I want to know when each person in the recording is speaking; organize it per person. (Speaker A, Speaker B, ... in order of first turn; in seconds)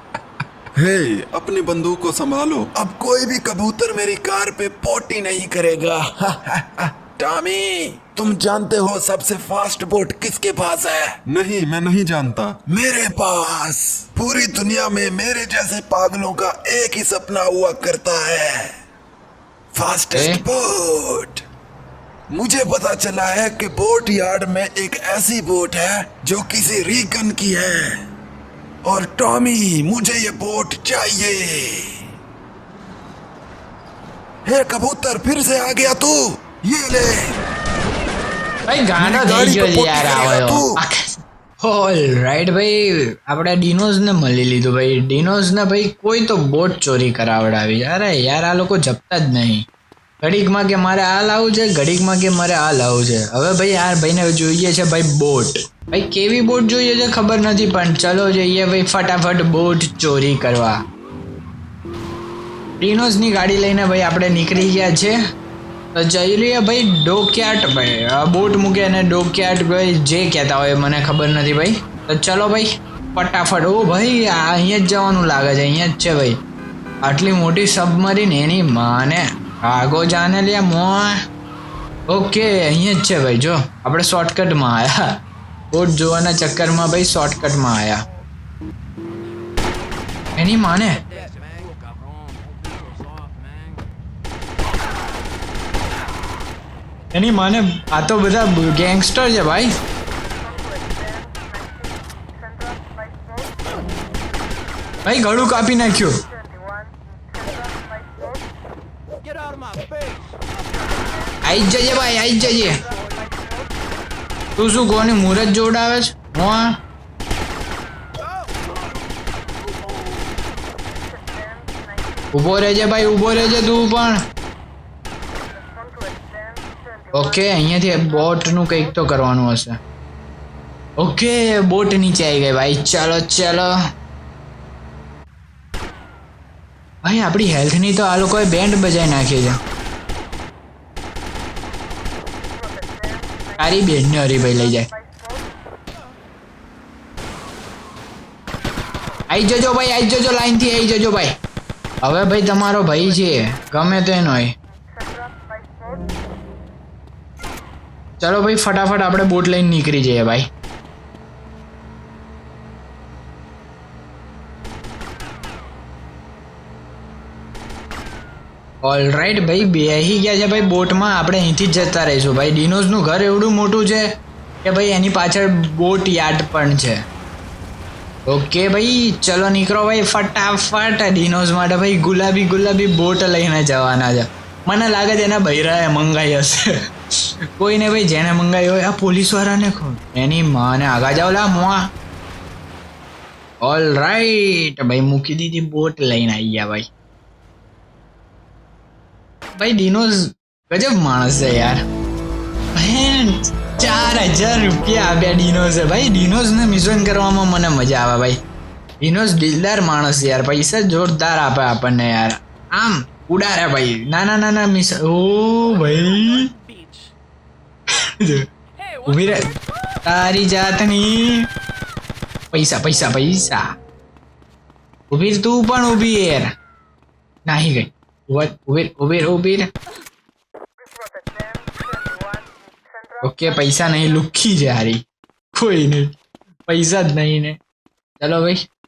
Speaker A: 0.8-2.7, 11.3-12.6
Speaker B: 2.7-11.2, 12.7-18.7, 19.7-21.4, 22.3-28.0, 28.8-31.9, 34.5-37.3, 39.0-40.8
Speaker C: 20.1-20.4, 38.7-49.6, 50.2-60.8, 62.8-65.2, 65.9-76.4, 77.0-81.2, 82.1-85.0, 85.7-88.0, 90.4-91.0, 97.1-99.7, 105.0-106.2, 111.4-112.8, 114.6-116.8, 122.3-124.2, 127.1-129.8, 131.0-133.8, 137.0-139.6, 143.6-144.9, 149.3-151.4, 152.0-154.5, 158.2-160.5, 168.8-174.1, 174.6-177.0, 178.3-186.7, 187.6-191.9, 193.6-196.9, 199.6-201.8, 202.8-208.4, 209.0-216.5, 217.9-218.5, 219.0-221.5, 222.5-223.7, 225.1-226.5, 227.5-229.7, 233.2-235.0, 235.5-236.2, 236.7-237.6, 238.2-238.6